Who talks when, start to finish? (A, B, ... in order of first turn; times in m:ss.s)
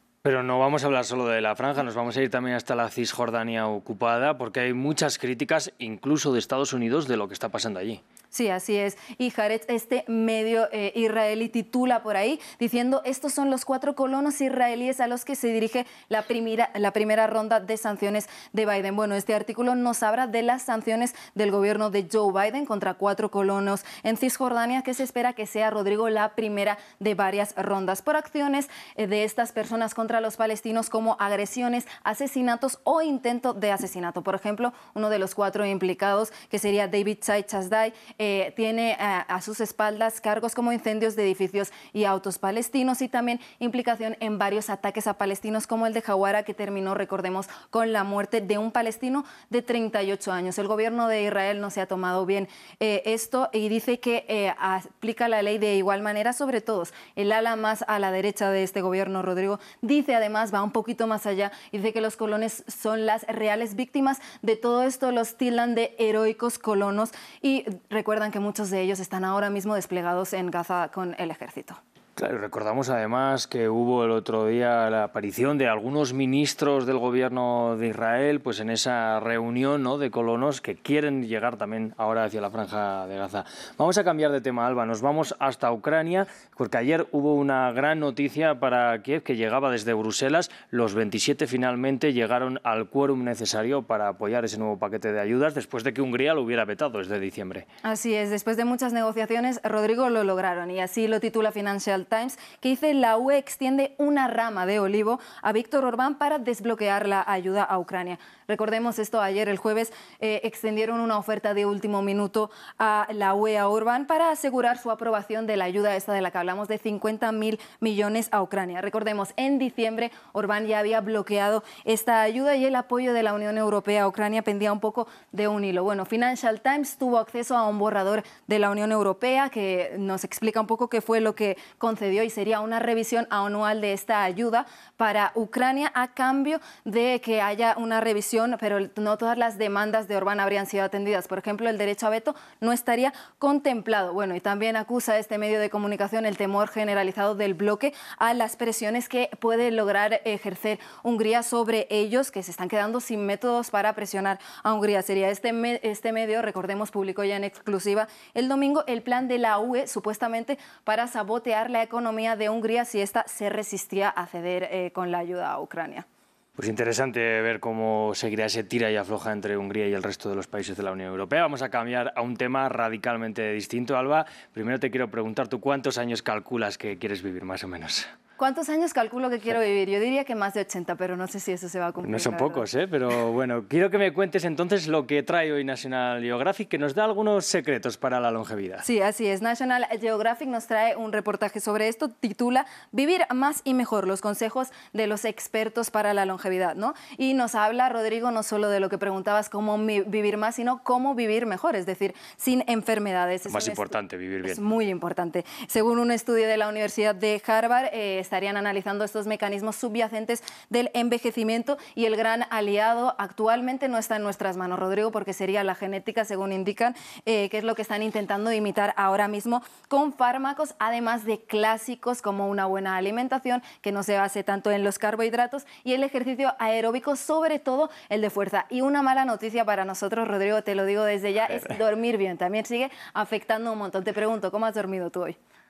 0:00.2-0:08.0 A
0:08.3-1:11.8 B
1:12.2-1:37.7 A
1:37.8-2:46.0 B
2:46.6-2:58.1 A
2:58.4-3:02.7 B
3:02.0-3:08.8 A
3:08.8-3:23.9 B
3:23.5-3:24.6 A
3:24.4-3:55.4 B